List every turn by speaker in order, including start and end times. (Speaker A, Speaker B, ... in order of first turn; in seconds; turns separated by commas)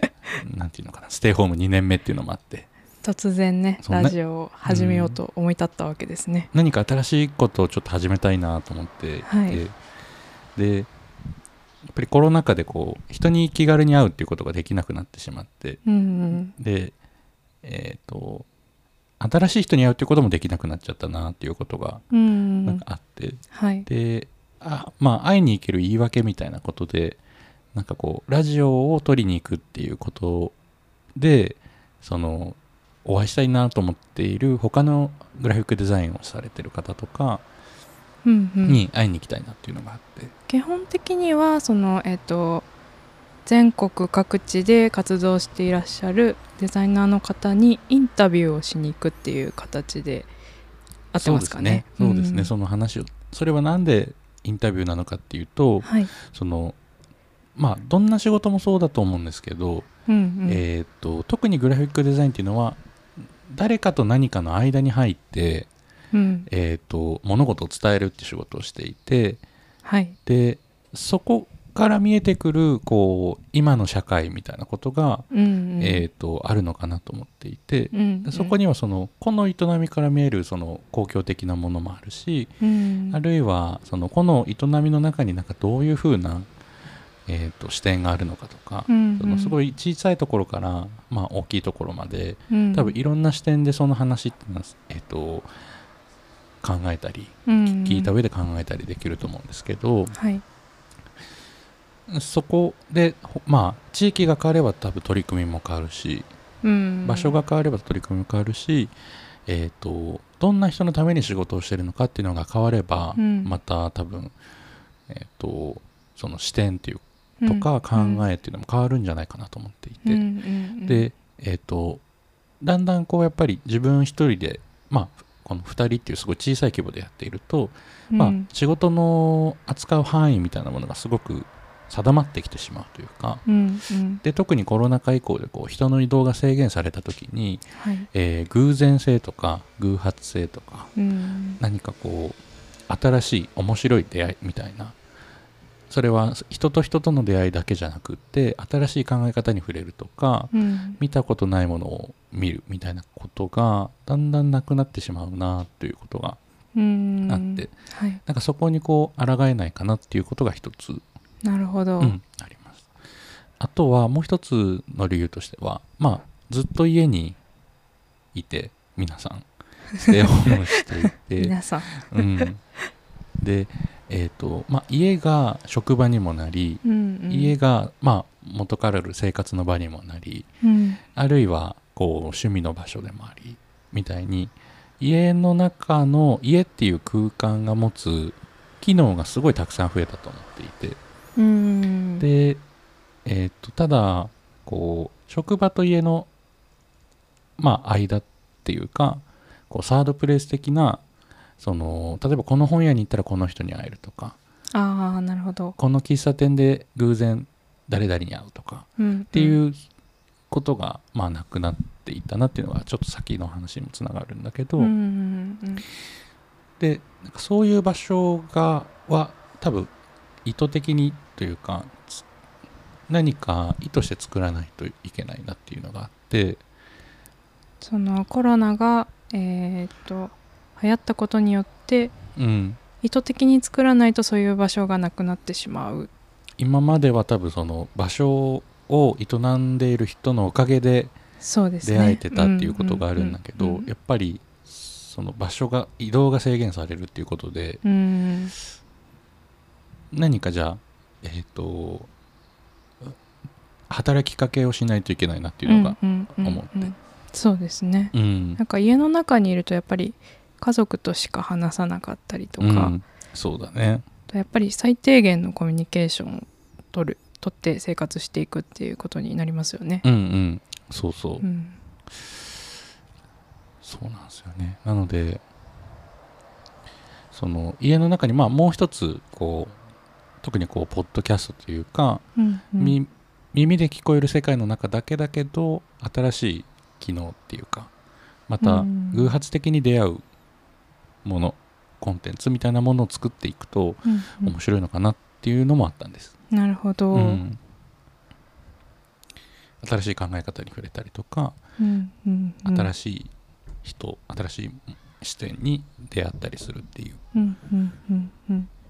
Speaker A: 0.4-2.7, Speaker B: 3.0-6.5, Speaker A: 3.8-5.2, Speaker A: 6.5-9.8, Speaker B: 9.2-9.6, Speaker A: 10.6-10.9, Speaker A: 11.8-17.0, Speaker B: 15.8-16.5, Speaker A: 17.6-18.5, Speaker A: 19.2-22.0, Speaker B: 22.1-22.8, Speaker A: 22.6-27.2, Speaker B: 23.5-23.9, Speaker A: 27.7-30.5, Speaker A: 31.1-37.4, Speaker B: 38.2-38.8, Speaker A: 38.6-40.3, Speaker B: 40.5-42.7, Speaker B: 43.4-50.3, Speaker B: 51.1-52.5, Speaker A: 51.2-56.8, Speaker B: 55.8-56.1, Speaker A: 57.5-59.9, Speaker B: 60.1-60.6, Speaker A: 60.5-65.7, Speaker B: 66.1-66.5, Speaker A: 66.5-69.4, Speaker B: 69.8-70.2, Speaker A: 70.2-75.3, Speaker B: 75.3-76.0, Speaker A: 75.8-82.5, Speaker B: 77.9-78.5, Speaker B: 82.6-83.2, Speaker A: 83.1-86.5, Speaker A: 87.3-95.5, Speaker B: 88.9-89.5, Speaker B: 92.5-92.9, Speaker A: 96.6-100.1, Speaker B: 97.5-98.1, Speaker B: 100.1-100.4, Speaker A: 102.1-106.3, Speaker B: 106.6-107.3, Speaker A: 107.0-108.9, Speaker A: 109.5-114.3, Speaker B: 113.2-113.6, Speaker A: 115.1-120.2, Speaker B: 117.4-118.3, Speaker B: 120.0-121.1, Speaker A: 120.8-122.0, Speaker A: 122.6-133.4, Speaker B: 128.1-128.5, Speaker B: 133.4-134.2, Speaker A: 134.2-140.9, Speaker B: 137.8-138.1, Speaker B: 140.9-141.6, Speaker A: 141.6-142.4, Speaker A: 142.9-144.9, Speaker A: 145.9-156.4, Speaker B: 150.5-151.0, Speaker B: 156.7-158.2, Speaker A: 157.3-157.7, Speaker A: 158.2-161.0, Speaker B: 161.4-162.2, Speaker A: 162.0-162.9, Speaker A: 163.6-167.4, Speaker A: 168.3-172.6, Speaker B: 171.3-172.4, Speaker A: 173.4-180.5, Speaker B: 176.8-177.6, Speaker B: 180.6-181.0, Speaker A: 181.1-191.0, Speaker B: 191.3-192.2, Speaker A: 192.2-192.6, Speaker A: 193.2-196.3, Speaker A: 197.6-201.0, Speaker A: 201.6-204.4, Speaker B: 204.7-205.8, Speaker A: 205.8-209.8, Speaker B: 209.0-209.6, Speaker A: 210.5-214.9, Speaker B: 214.8-215.8, Speaker A: 216.8-219.9, Speaker A: 220.4-222.2, Speaker A: 223.1-226.6, Speaker B: 227.8-232.1, Speaker A: 232.3-232.8, Speaker B: 233.0-236.1, Speaker A: 236.6-241.1, Speaker B: 241.4-243.9, Speaker A: 241.8-247.8, Speaker B: 247.8-248.5, Speaker A: 250.1-252.1, Speaker A: 253.9-256.9, Speaker B: 255.6-262.9, Speaker A: 258.1-258.6, Speaker A: 262.6-264.0, Speaker B: 264.3-270.0, Speaker A: 270.0-271.4, Speaker B: 271.4-271.8, Speaker A: 273.8-275.4, Speaker A: 277.3-279.7, Speaker A: 280.4-282.2, Speaker B: 282.4-283.0, Speaker A: 282.8-287.9, Speaker A: 288.5-290.2, Speaker B: 288.6-289.3, Speaker A: 291.2-296.3, Speaker B: 294.0-294.5, Speaker B: 296.5-297.4, Speaker A: 297.1-297.6, Speaker A: 299.8-301.6, Speaker B: 301.8-302.9, Speaker A: 302.6-307.2, Speaker B: 307.3-308.7